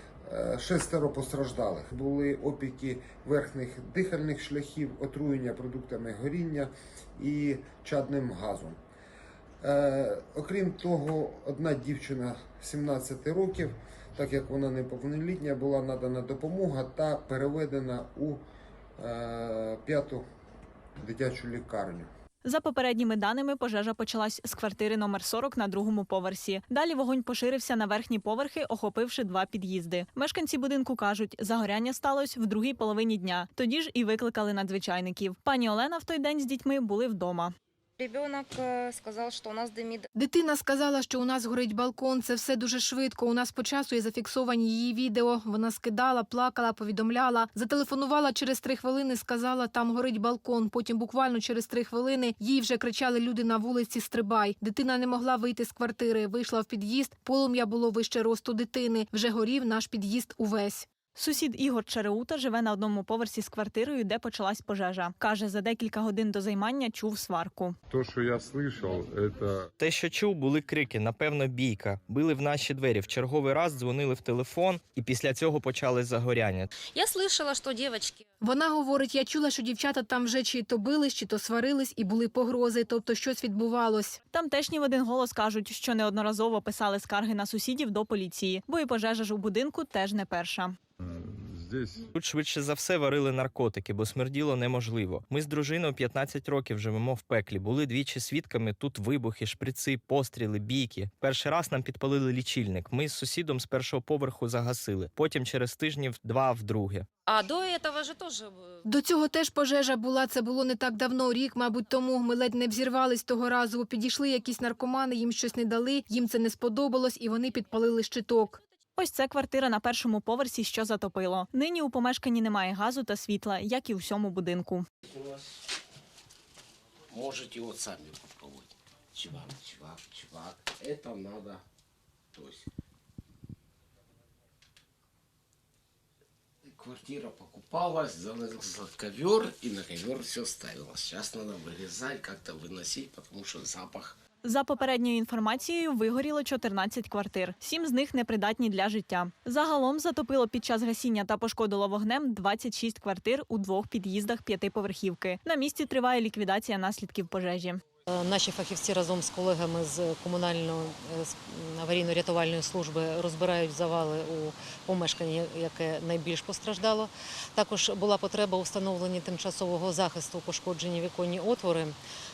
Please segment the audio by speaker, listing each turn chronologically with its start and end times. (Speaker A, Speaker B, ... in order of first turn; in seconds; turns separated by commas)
Speaker A: 0.3-8.8, Speaker A: 9.6-18.4, Speaker A: 19.0-20.2, Speaker A: 21.0-22.1, Speaker B: 22.4-37.5, Speaker C: 38.0-40.1, Speaker D: 40.1-60.9, Speaker B: 61.1-67.8, Speaker E: 67.9-69.7, Speaker F: 69.8-76.7, Speaker C: 76.9-78.2, Speaker D: 78.4-84.2, Speaker B: 84.3-90.7, Speaker E: 91.0-92.1, Speaker F: 92.2-107.0, Speaker C: 107.3-108.9, Speaker D: 108.9-118.6, Speaker B: 119.0-124.8, Speaker G: 125.0-125.5, Speaker G: 127.1-131.6, Speaker G: 132.3-132.7, Speaker G: 136.7-144.1, Speaker B: 144.4-157.8, Speaker H: 158.1-172.0